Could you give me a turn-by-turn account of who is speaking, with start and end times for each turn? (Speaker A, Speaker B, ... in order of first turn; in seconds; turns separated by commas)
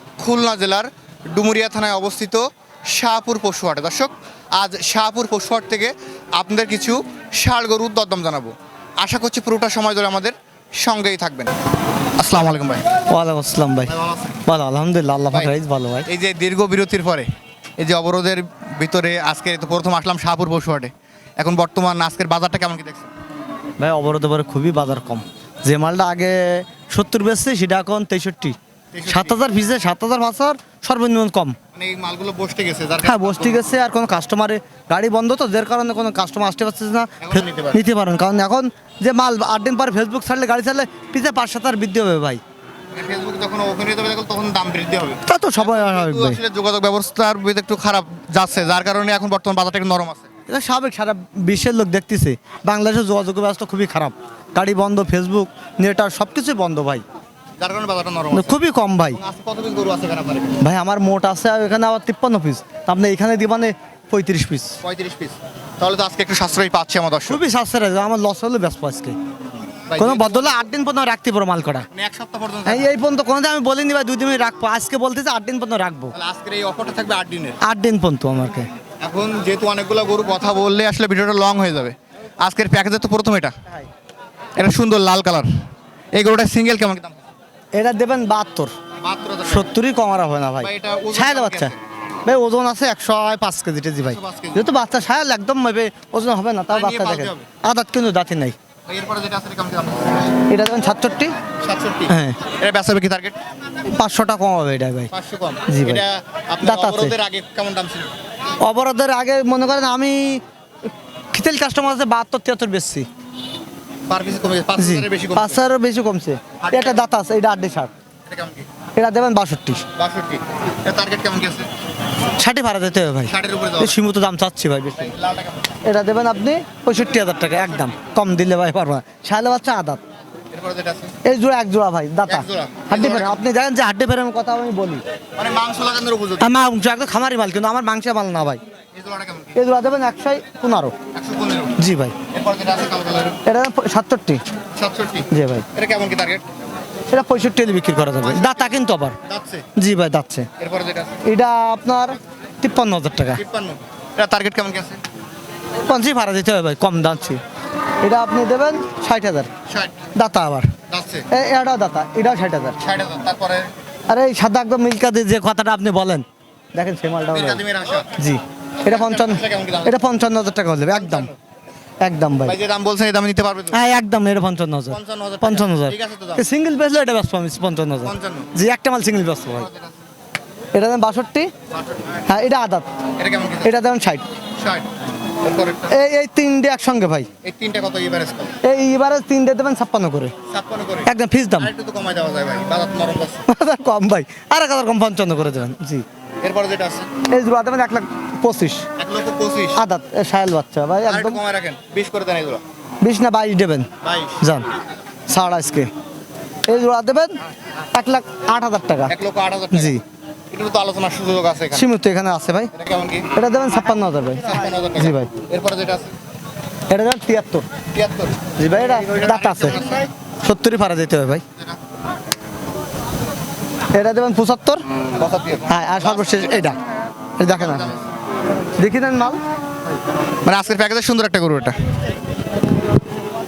Speaker A: 0.2-11.5, Speaker A: 12.2-12.8, Speaker B: 13.1-16.1, Speaker A: 13.9-14.4, Speaker A: 16.1-17.3, Speaker A: 17.8-23.1, Speaker B: 23.8-28.6, Speaker A: 28.9-29.4, Speaker B: 29.1-31.6, Speaker A: 31.7-33.8, Speaker B: 33.0-42.4, Speaker A: 37.2-37.8, Speaker A: 42.9-50.3, Speaker B: 45.2-46.4, Speaker B: 50.5-57.0, Speaker A: 57.6-58.6, Speaker B: 58.3-59.2, Speaker A: 59.1-60.6, Speaker B: 60.6-64.8, Speaker A: 64.8-67.4, Speaker B: 67.3-69.2, Speaker A: 69.9-70.6, Speaker B: 70.0-71.9, Speaker A: 71.9-73.0, Speaker B: 72.7-76.1, Speaker A: 76.1-77.6, Speaker B: 77.6-78.7, Speaker A: 79.0-83.5, Speaker A: 84.5-85.5, Speaker A: 86.1-87.2, Speaker B: 87.7-88.7, Speaker A: 89.0-89.7, Speaker B: 89.4-91.7, Speaker A: 90.6-91.8, Speaker B: 92.2-98.5, Speaker A: 94.0-94.7, Speaker A: 96.7-97.5, Speaker A: 98.9-100.4, Speaker B: 100.5-101.3, Speaker A: 101.6-103.4, Speaker B: 102.1-102.4, Speaker B: 103.9-105.1, Speaker A: 105.1-108.1, Speaker B: 105.7-106.0, Speaker B: 106.6-107.2, Speaker B: 108.6-110.4, Speaker B: 111.3-113.1, Speaker A: 114.1-115.6, Speaker B: 114.8-117.9, Speaker A: 116.6-117.0, Speaker A: 118.2-118.7, Speaker B: 119.0-119.8, Speaker A: 120.0-121.7, Speaker B: 122.4-125.1, Speaker A: 123.3-124.0, Speaker A: 125.0-125.8, Speaker B: 125.8-130.0, Speaker A: 130.5-131.1, Speaker B: 131.2-135.0, Speaker A: 132.3-133.4, Speaker A: 135.4-136.5, Speaker B: 136.4-138.6, Speaker A: 138.9-139.6, Speaker B: 139.5-140.9, Speaker A: 141.1-141.8, Speaker B: 141.8-142.2, Speaker A: 142.3-143.4, Speaker B: 143.4-144.4, Speaker A: 144.7-146.4, Speaker B: 145.3-145.7, Speaker B: 147.1-149.2, Speaker A: 148.2-148.7, Speaker A: 149.2-149.7, Speaker B: 149.8-150.5, Speaker A: 150.6-151.2, Speaker B: 151.2-153.4, Speaker A: 153.3-155.0, Speaker B: 155.8-157.4, Speaker B: 158.0-159.5, Speaker A: 159.7-160.0, Speaker B: 160.1-160.7, Speaker A: 160.9-161.3, Speaker B: 161.3-162.8, Speaker A: 162.8-163.7, Speaker B: 164.1-167.6, Speaker A: 167.3-168.1, Speaker B: 168.2-171.3, Speaker A: 168.8-170.0, Speaker A: 170.9-171.3, Speaker B: 172.0-172.6, Speaker A: 172.4-173.8, Speaker B: 173.7-179.7, Speaker A: 174.9-176.4, Speaker A: 178.0-178.5, Speaker A: 179.5-179.9, Speaker B: 180.7-181.5, Speaker A: 181.7-182.1, Speaker B: 182.3-182.9, Speaker A: 183.2-183.7, Speaker B: 183.6-184.3, Speaker A: 184.6-184.9, Speaker A: 185.4-186.0, Speaker B: 185.9-187.3, Speaker A: 187.4-188.6, Speaker B: 188.6-190.3, Speaker A: 190.5-193.4, Speaker B: 191.1-191.7, Speaker B: 193.5-196.0, Speaker A: 196.4-197.1, Speaker B: 197.2-198.8, Speaker A: 199.0-199.8, Speaker B: 199.8-201.4, Speaker A: 201.1-202.6, Speaker B: 203.0-203.9, Speaker A: 204.0-204.4, Speaker B: 204.4-204.7, Speaker B: 205.3-205.9, Speaker B: 206.7-207.4, Speaker B: 207.9-209.1, Speaker A: 209.1-209.9, Speaker B: 209.7-210.0, Speaker A: 210.5-211.9, Speaker B: 211.7-212.7, Speaker A: 212.7-213.3, Speaker B: 213.3-215.3, Speaker A: 214.4-216.1, Speaker B: 216.9-217.7, Speaker A: 217.9-220.1, Speaker B: 218.6-219.9, Speaker B: 220.4-221.4, Speaker B: 223.9-224.8, Speaker A: 225.1-226.8, Speaker B: 225.7-226.8, Speaker B: 227.4-227.9, Speaker A: 227.5-228.1, Speaker B: 228.8-229.4, Speaker A: 230.4-231.8